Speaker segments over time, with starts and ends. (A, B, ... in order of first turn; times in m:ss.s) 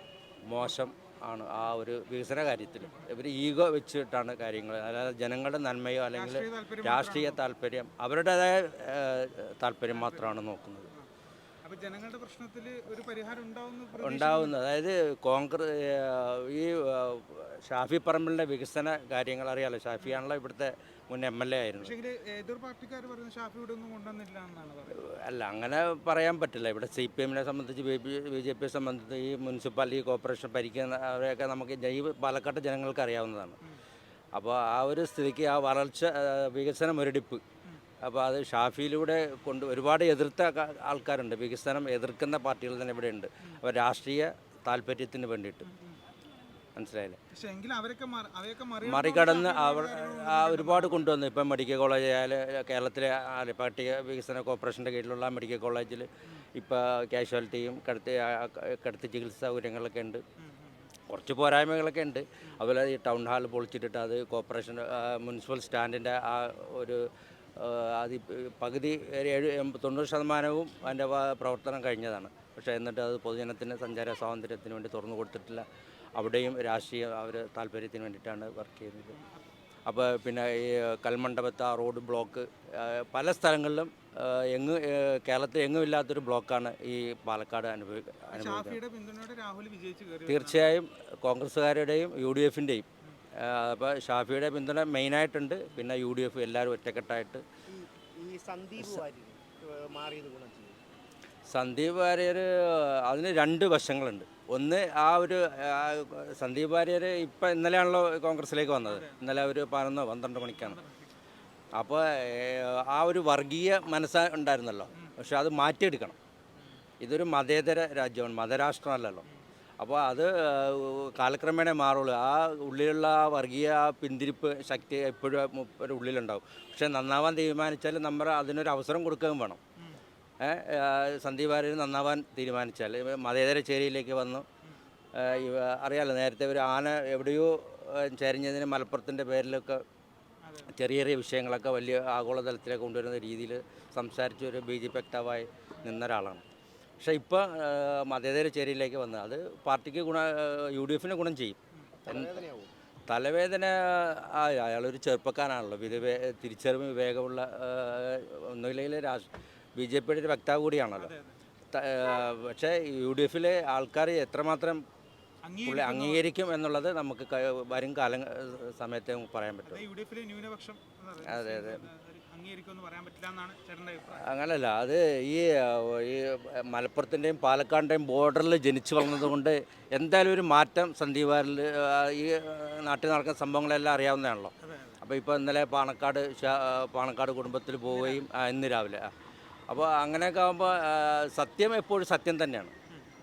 0:00.5-0:10.9 A
0:06.1-0:07.4 B
0:09.9-0:10.4 B
0:11.6-0:14.6 B
0:14.0-0:22.0 A
0:21.8-0:25.0 B
0:25.1-0:33.6 A
0:34.4-0:37.4 A
0:38.1-0:45.7 A
0:45.6-0:46.0 B
0:46.8-0:47.2 A
0:47.3-0:51.1 B
0:48.8-1:00.2 A
1:00.4-1:00.9 B
1:01.1-1:07.0 A
1:07.6-1:15.6 A
1:16.2-1:19.2 A
1:19.2-1:19.4 B
1:19.9-1:28.8 A
1:28.3-1:30.8 B
1:30.3-1:32.9 A
1:33.4-1:37.4 A
1:37.7-1:40.8 C
1:41.5-1:42.5 A
1:43.0-1:50.8 A
1:48.9-1:49.3 B
1:50.5-1:51.2 B
1:51.8-1:56.2 A
1:57.0-1:59.2 A
1:59.8-2:09.6 A
2:10.4-2:14.4 A
2:15.2-2:19.8 A
2:20.4-2:20.7 B
2:20.7-2:26.4 A
2:27.0-2:32.4 A
2:32.0-2:32.7 C
2:33.1-2:39.3 A
2:39.8-2:41.1 A
2:41.0-2:41.3 B
2:41.7-2:44.8 A
2:45.5-2:46.3 B
2:45.7-2:49.8 A
2:49.7-2:54.2 B
2:51.2-2:51.9 A
2:54.1-3:09.1 A
3:04.6-3:05.0 B
3:07.9-3:08.3 B
3:09.7-3:12.7 A